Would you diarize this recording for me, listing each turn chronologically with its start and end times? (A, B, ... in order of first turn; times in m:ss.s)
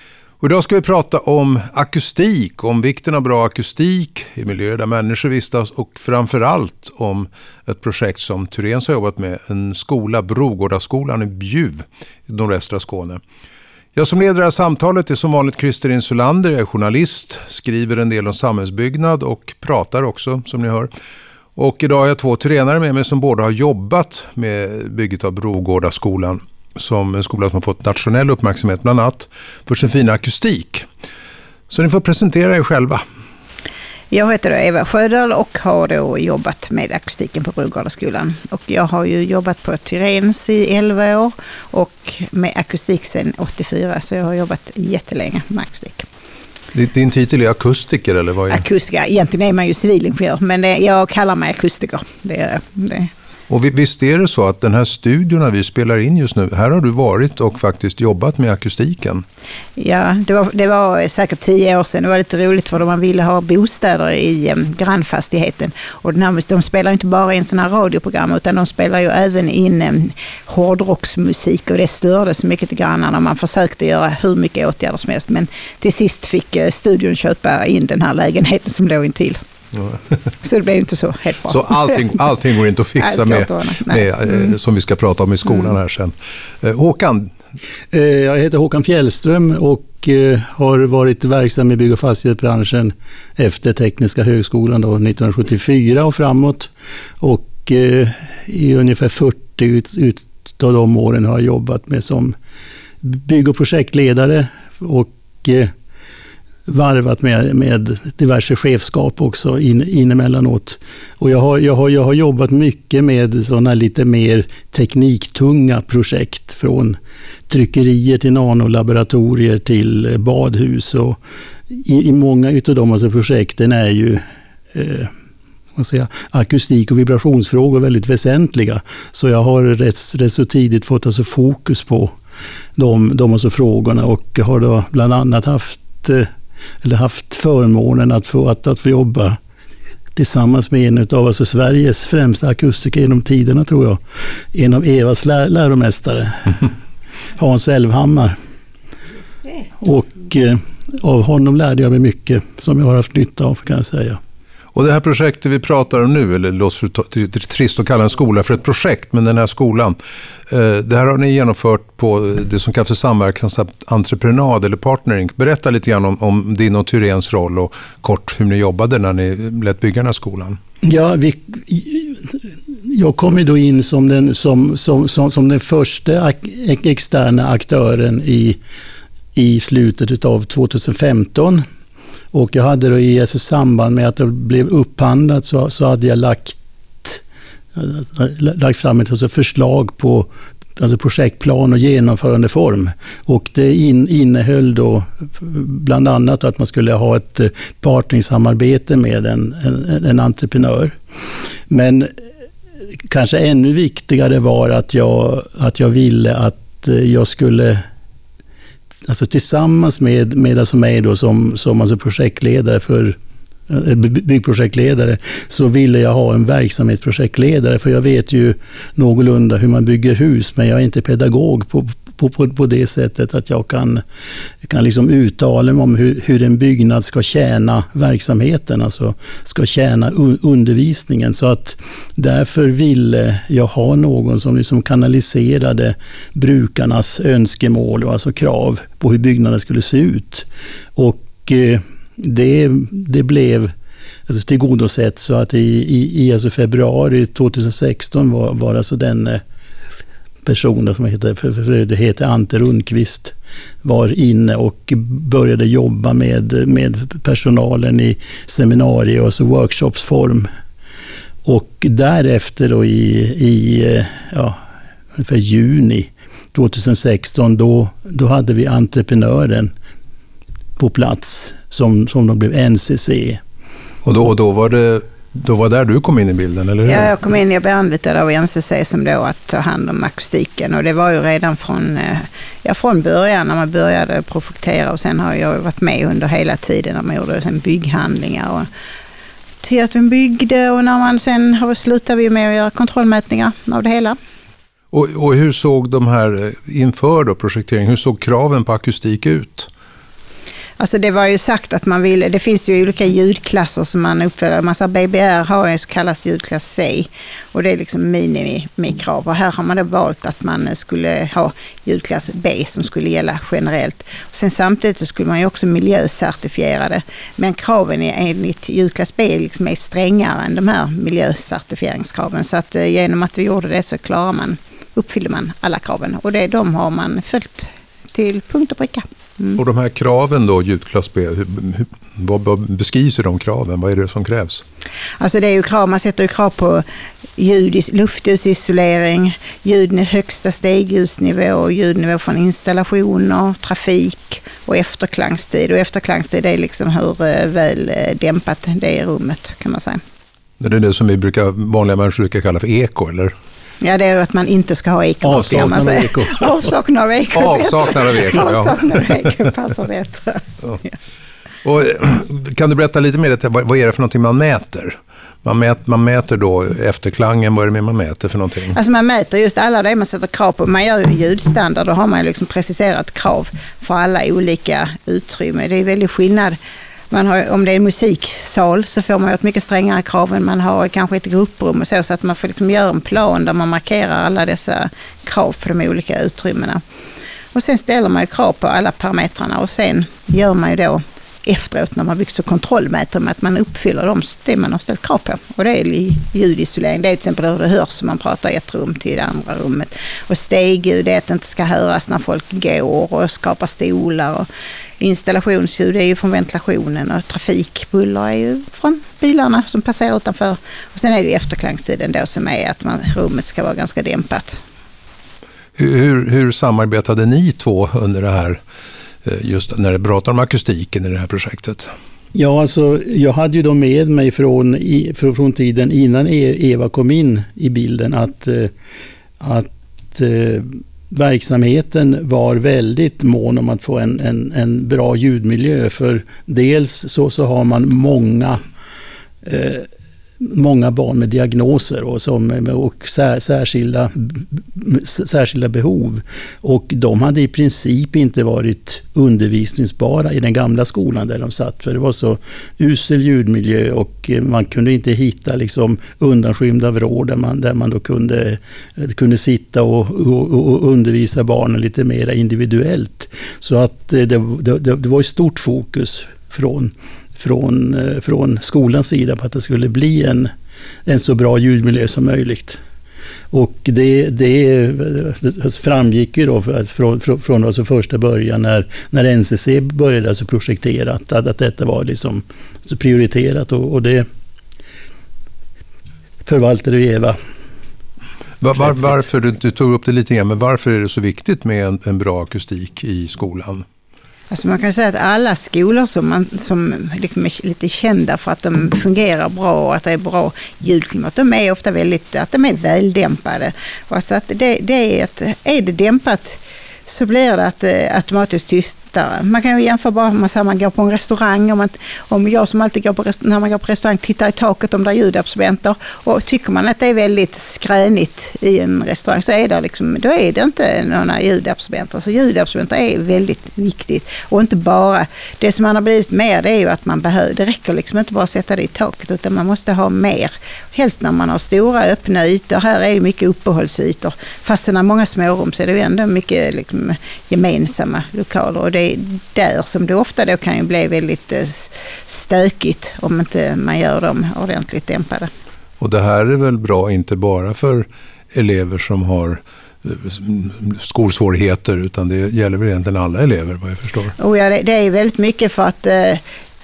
0:00.4-0:13.2 A
0:14.0-0:20.9 A
0:21.6-0:30.9 A
0:31.7-0:33.0 A
0:34.1-0:46.1 B
0:46.7-0:48.6 A
0:48.5-0:53.1 B
0:53.5-0:59.2 A
0:59.8-1:19.4 B
1:20.4-1:22.0 B
1:21.5-1:27.3 A
1:23.0-1:24.5 B
1:27.9-1:42.4 C
1:43.0-1:45.7 C
1:46.7-2:01.2 C
2:01.7-2:04.2 C
2:04.7-2:05.1 C
2:05.8-2:12.1 C
2:12.8-2:16.3 C
2:16.8-2:19.4 C
2:20.2-2:24.0 C
2:24.5-2:26.7 C
2:27.4-2:28.4 C
2:29.8-2:34.2 C
2:34.7-2:40.0 A
2:40.5-2:50.6 A
2:50.8-2:58.6 C
2:59.4-3:01.6 C
3:02.3-3:07.2 C
3:07.8-3:21.0 C
3:21.7-3:22.1 C
3:23.1-3:27.8 C
3:29.1-3:33.2 C
3:33.7-3:44.0 C
3:44.6-4:03.7 C
4:04.3-4:09.4 C
4:10.4-4:20.5 C
4:21.4-4:24.6 C
4:25.2-4:29.7 C
4:30.8-4:33.4 C
4:34.0-4:37.2 A
4:36.9-4:48.7 B
4:49.6-4:54.2 B
4:54.9-4:59.7 A
5:00.8-5:29.6 B
5:29.6-5:34.6 A
5:35.2-5:36.8 B
5:37.4-5:50.0 B
5:50.6-5:53.3 A
5:53.8-6:00.9 B
5:55.2-5:56.7 C
5:57.3-5:59.3 A
6:01.6-6:08.8 A
6:08.7-6:16.6 B
6:17.1-6:26.8 B
6:27.5-6:44.5 B
6:45.0-6:54.6 B
6:55.8-6:58.6 A
6:59.2-7:01.9 A
7:02.3-7:08.7 C
7:09.4-7:18.6 C
7:19.4-7:19.9 C
7:20.4-7:50.5 C
7:51.1-7:52.8 C
7:53.5-8:04.3 C
8:06.4-8:07.4 C
8:08.6-8:13.9 A
8:14.5-9:05.5 B
9:06.0-9:14.3 A
9:14.4-9:16.4 B